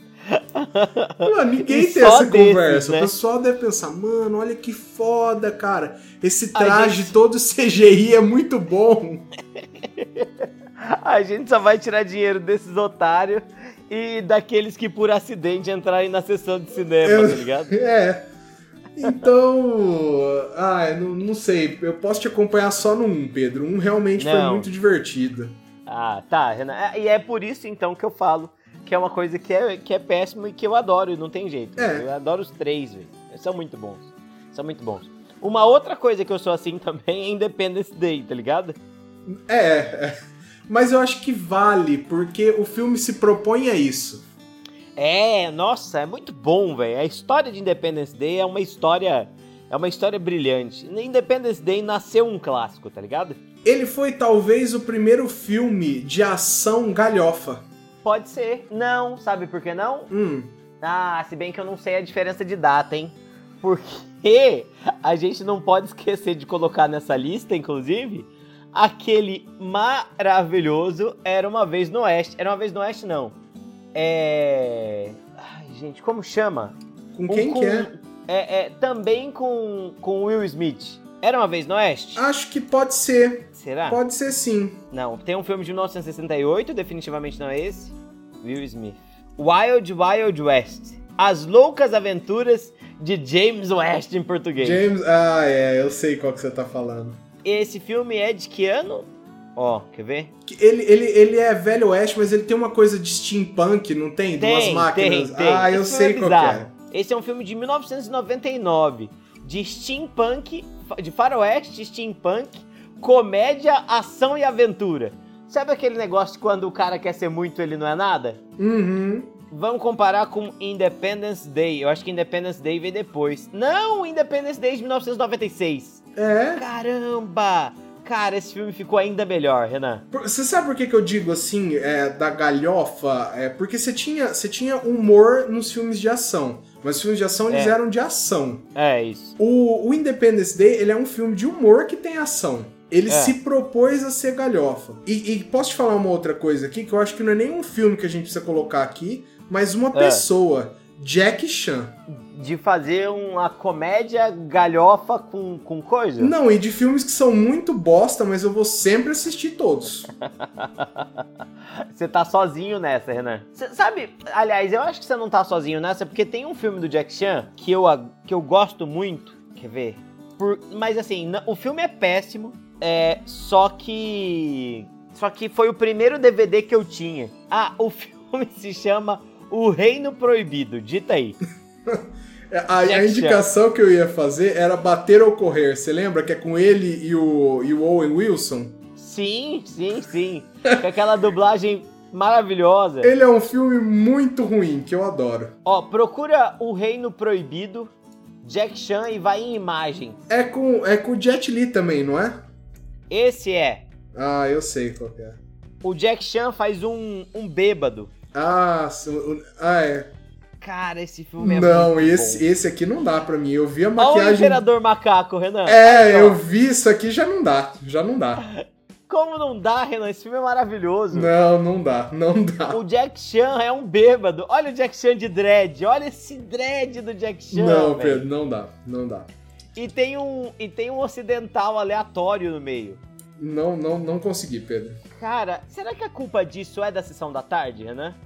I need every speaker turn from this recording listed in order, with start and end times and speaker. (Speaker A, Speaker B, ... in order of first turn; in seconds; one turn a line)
Speaker A: 0.3-3.1
Speaker B: 1.2-9.3
Speaker A: 6.5-7.1
Speaker A: 9.8-17.8
Speaker B: 17.0-18.3
Speaker B: 19.0-25.6
Speaker A: 24.2-24.7
Speaker A: 25.9-38.8
Speaker B: 31.8-32.1
Speaker B: 39.3-40.1
Speaker B: 40.7-44.3
Speaker A: 45.0-53.4
Speaker B: 53.6-57.6
Speaker A: 58.0-60.1
Speaker B: 60.1-60.5
Speaker A: 60.8-73.4
Speaker A: 74.0-76.8
Speaker B: 77.1-77.9
Speaker A: 77.3-82.2
Speaker B: 82.2-84.8
Speaker A: 83.6-84.0
Speaker A: 84.9-94.8
Speaker B: 94.6-97.2
Speaker A: 97.4-100.3
Speaker B: 100.5-106.7
Speaker A: 104.4-118.4
Speaker B: 118.6-119.3
Speaker A: 119.5-126.0
Speaker B: 126.2-126.6
Speaker A: 126.6-130.0
Speaker B: 130.1-138.7
Speaker A: 137.5-137.8
Speaker A: 138.8-139.3
Speaker B: 139.4-152.0
Speaker A: 143.1-143.3
Speaker A: 149.9-150.2
Speaker A: 152.1-156.3
Speaker B: 156.2-160.1
Speaker A: 160.4-161.1
Speaker A: 161.8-181.4
Speaker B: 181.9-188.8
Speaker A: 182.8-183.5
Speaker A: 189.0-193.1
Speaker B: 193.0-195.6
Speaker A: 195.7-200.2
Speaker B: 200.3-202.4
Speaker A: 203.1-203.9
Speaker B: 204.1-205.4
Speaker A: 205.8-208.1
Speaker B: 208.3-210.1
Speaker A: 210.6-212.4
Speaker B: 211.4-214.6
Speaker A: 214.0-216.4
Speaker B: 215.7-218.4
Speaker A: 218.4-221.3
Speaker B: 221.1-222.8
Speaker A: 222.7-228.2
Speaker B: 227.5-229.3
Speaker A: 229.8-233.0
Speaker B: 233.4-235.0
Speaker A: 235.2-238.2